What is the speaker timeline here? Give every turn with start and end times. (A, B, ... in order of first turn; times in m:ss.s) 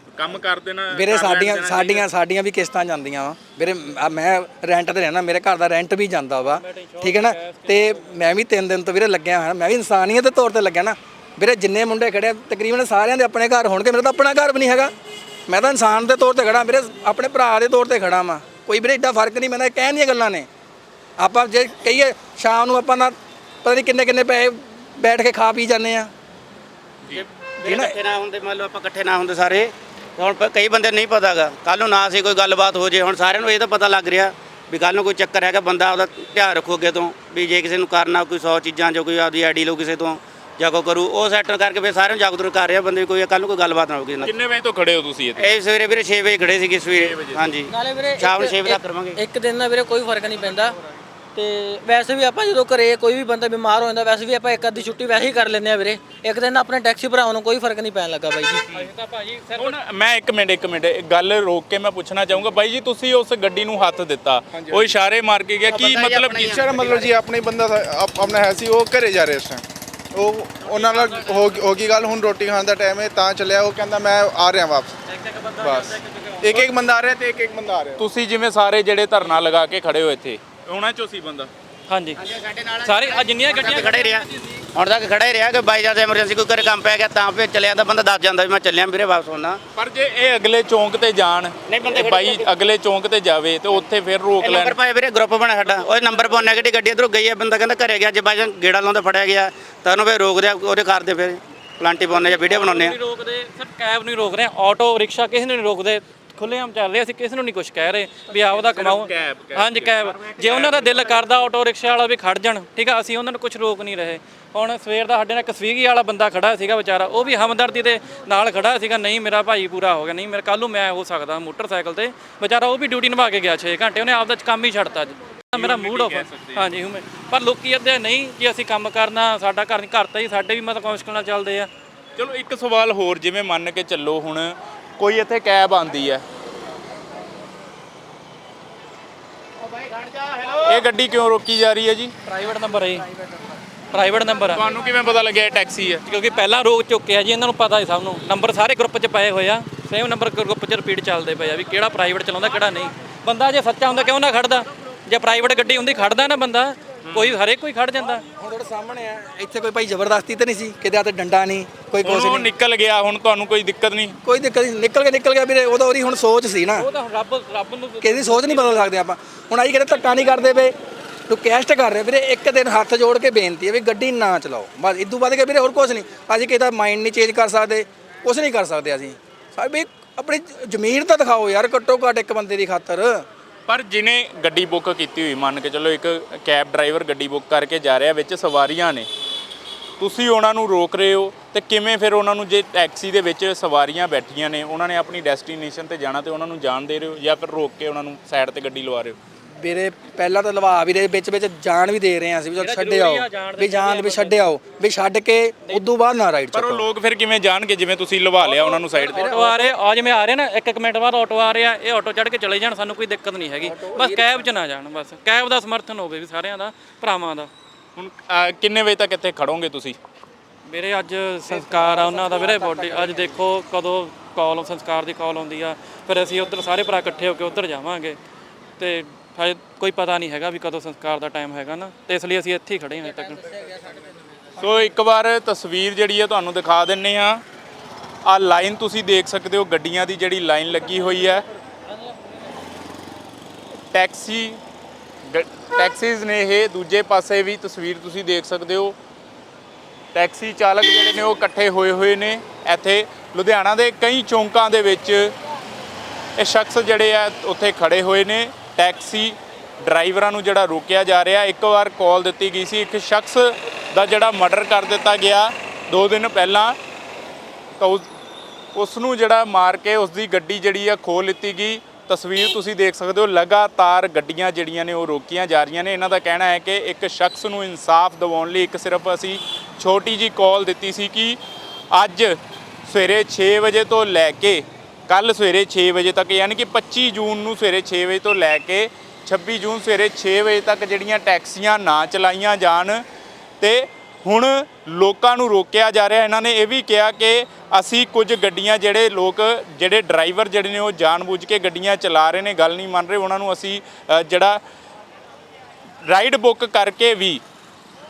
0:00.1-0:02.1 A
0:00.9-0:14.9 B
0:06.6-0:08.0 C
0:15.5-0:20.5 B
0:21.2-0:26.1 B
0:27.1-0:44.3 D
0:27.6-0:28.0 B
0:44.2-0:45.5 A
0:45.4-0:49.2 D
0:46.9-0:47.6 A
0:47.7-0:50.8 E
0:51.4-0:58.7 E
0:58.7-0:59.7 C
0:59.6-1:06.7 A
1:04.6-1:04.9 F
1:05.7-1:07.1 D
1:06.5-1:09.6 F
1:10.1-1:15.0 F
1:15.6-1:18.0 F
1:18.0-1:21.5 A
1:21.9-1:22.2 C
1:22.2-1:29.6 D
1:22.8-1:24.4 C
1:29.8-1:34.8 A
1:31.7-1:32.5 D
1:34.4-1:43.0 D
1:42.4-2:11.7 C
1:48.5-1:51.0 A
2:05.5-2:06.6 A
2:12.2-2:16.2 A
2:20.6-2:22.1 A
2:22.2-2:23.1 C
2:23.9-2:24.7 C
2:24.5-2:26.0 A
2:26.0-2:38.2 C
2:37.1-2:37.4 A
2:38.4-2:42.5 B
2:42.0-2:44.1 A
2:44.2-2:46.9 B
2:46.8-2:48.9 C
2:48.0-2:50.7 B
2:51.3-3:03.2 B
3:03.7-3:09.1 A
3:10.0-3:19.2 A
3:19.6-3:26.9 B
3:22.6-3:24.4 C
3:26.5-3:29.6 A
3:28.5-3:37.5 C
3:33.6-3:34.5 B
3:38.0-3:40.0 A
3:40.6-3:48.2 C
3:48.8-3:53.4 C
3:54.6-3:57.4 A
3:58.2-4:01.4 A
4:03.9-4:04.6 A
4:05.3-4:09.0 A
4:10.1-4:15.3 A
4:16.4-4:26.8 A
4:27.8-4:28.0 A
4:28.8-4:41.4 A
4:41.9-4:53.0 A
4:53.6-5:04.6 A
5:06.1-5:07.4 A